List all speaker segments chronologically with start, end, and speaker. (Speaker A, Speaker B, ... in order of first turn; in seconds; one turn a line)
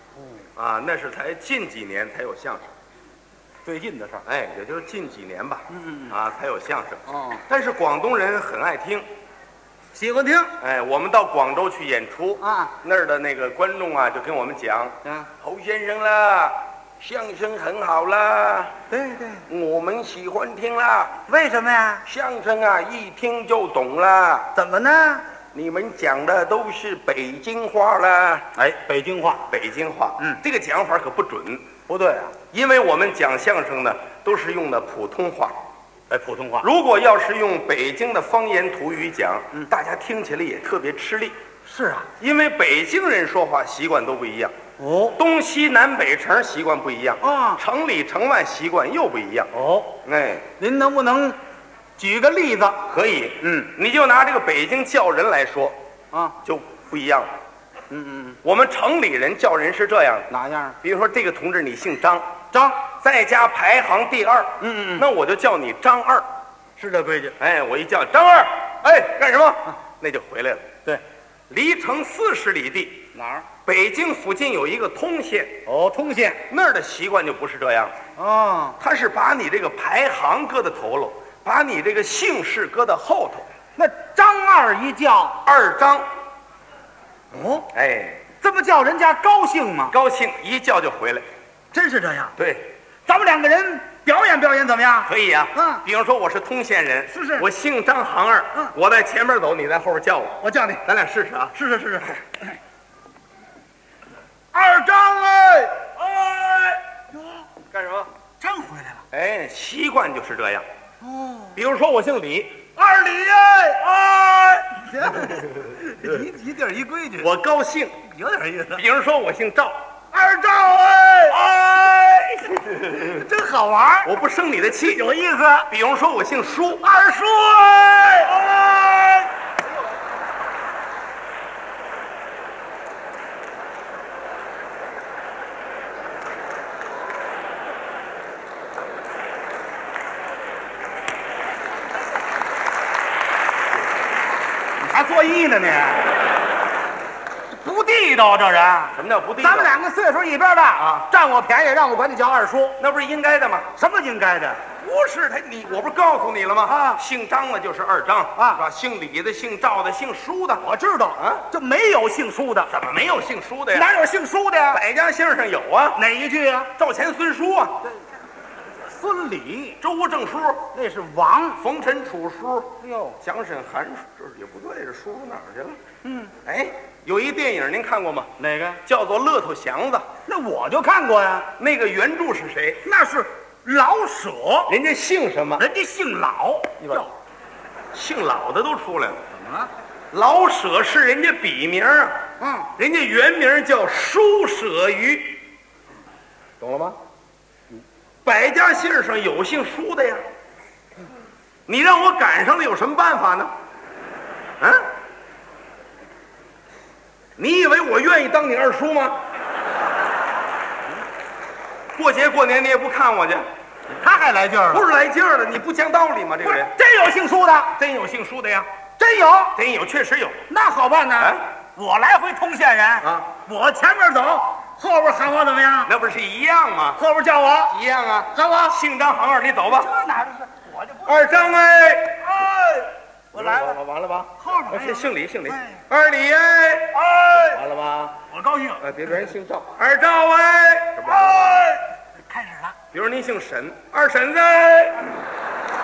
Speaker A: 0.6-2.7
Speaker B: 3.6-4.2
Speaker A: 4.2-9.1
Speaker B: 5.7-6.1
Speaker B: 7.1-7.4
Speaker B: 9.9-10.5
Speaker A: 10.6-18.8
Speaker B: 12.4-12.7
Speaker B: 18.9-19.4
Speaker A: 19.5-21.1
Speaker B: 21.3-22.0
Speaker A: 22.0-24.5
Speaker B: 24.5-25.2
Speaker A: 25.5-28.5
Speaker B: 28.6-29.4
Speaker A: 29.5-31.7
Speaker B: 31.9-32.3
Speaker A: 32.5-35.5
Speaker B: 36.1-36.7
Speaker A: 36.6-41.4
Speaker B: 41.7-42.1
Speaker A: 42.2-44.5
Speaker B: 44.8-45.2
Speaker A: 45.1-49.5
Speaker B: 47.2-47.6
Speaker B: 49.5-50.0
Speaker A: 50.0-50.5
Speaker B: 50.6-51.4
Speaker B: 52.0-52.8
Speaker A: 52.9-55.8
Speaker B: 53.4-53.7
Speaker A: 56.4-57.3
Speaker B: 57.9-58.4
Speaker A: 58.4-60.3
Speaker B: 60.3-60.8
Speaker A: 60.8-62.3
Speaker B: 62.5-62.8
Speaker A: 62.9-66.2
Speaker B: 64.6-65.1
Speaker B: 66.8-67.4
Speaker A: 67.4-70.7
Speaker A: 71.5-73.1
Speaker B: 73.1-73.5
Speaker A: 73.6-75.6
Speaker B: 75.7-76.4
Speaker A: 76.5-78.0
Speaker B: 78.2-78.8
Speaker A: 78.8-83.5
Speaker B: 83.8-85.4
Speaker A: 85.5-86.1
Speaker B: 87.3-87.6
Speaker A: 87.7-88.2
Speaker B: 88.4-89.9
Speaker A: 89.9-91.2
Speaker B: 91.7-92.3
Speaker A: 92.4-92.7
Speaker B: 93.1-95.8
Speaker A: 95.1-101.6
Speaker B: 97.1-97.5
Speaker B: 100.4-100.8
Speaker B: 101.6-102.3
Speaker B: 104.5-105.9
Speaker A: 106.0-106.8
Speaker A: 107.7-108.1
Speaker B: 108.4-109.0
Speaker A: 109.1-110.7
Speaker B: 111.0-111.6
Speaker A: 111.5-112.7
Speaker B: 112.8-114.0
Speaker A: 114.0-114.7
Speaker B: 114.6-117.3
Speaker A: 117.2-118.0
Speaker B: 118.1-118.8
Speaker A: 118.7-119.8
Speaker B: 120.1-121.4
Speaker A: 121.3-123.1
Speaker B: 122.8-124.1
Speaker A: 124.0-125.1
Speaker B: 124.8-125.7
Speaker A: 125.7-126.8
Speaker B: 126.8-129.2
Speaker B: 144.8-146.1
Speaker B: 147.5-152.8
Speaker A: 148.9-149.8
Speaker A: 152.8-153.7
Speaker B: 153.8-154.6
Speaker A: 154.8-160.7
Speaker B: 156.7-157.0
Speaker B: 158.3-158.6
Speaker B: 160.6-162.7
Speaker A: 161.2-161.5
Speaker A: 162.7-163.9
Speaker B: 163.7-164.8
Speaker A: 164.7-166.0
Speaker B: 166.0-166.7
Speaker A: 166.8-167.8
Speaker B: 168.8-169.8
Speaker A: 169.8-170.7
Speaker B: 170.8-171.6
Speaker A: 171.6-175.8
Speaker B: 172.8-173.2
Speaker B: 176.1-176.3
Speaker A: 176.4-178.3
Speaker B: 178.4-178.8
Speaker A: 178.8-180.1
Speaker B: 180.3-181.5
Speaker A: 181.6-182.8
Speaker B: 182.8-184.7
Speaker A: 184.7-185.7
Speaker B: 185.6-187.1
Speaker A: 186.8-187.1
Speaker A: 187.9-189.2
Speaker B: 189.3-189.7
Speaker A: 190.1-192.2
Speaker B: 192.4-192.7
Speaker A: 192.8-195.4
Speaker A: 196.6-197.0
Speaker A: 198.2-200.2
Speaker A: 201.7-203.5
Speaker A: 204.6-204.8
Speaker A: 207.4-209.2
Speaker A: 211.9-213.5
Speaker B: 213.9-214.8
Speaker A: 214.7-216.8
Speaker B: 216.4-217.7
Speaker A: 217.7-218.7
Speaker B: 219.0-219.5
Speaker A: 219.5-220.4
Speaker B: 220.5-225.9
Speaker A: 221.2-221.5
Speaker A: 223.0-223.3
Speaker A: 225.8-227.0
Speaker B: 227.0-227.7
Speaker A: 227.7-229.9
Speaker B: 228.3-228.8
Speaker B: 229.8-233.8
Speaker A: 231.1-232.4
Speaker A: 233.3-238.2
Speaker B: 234.4-235.8
Speaker B: 237.1-237.5
Speaker B: 238.3-238.8
Speaker A: 238.8-241.7
Speaker B: 241.0-242.8
Speaker A: 242.9-245.1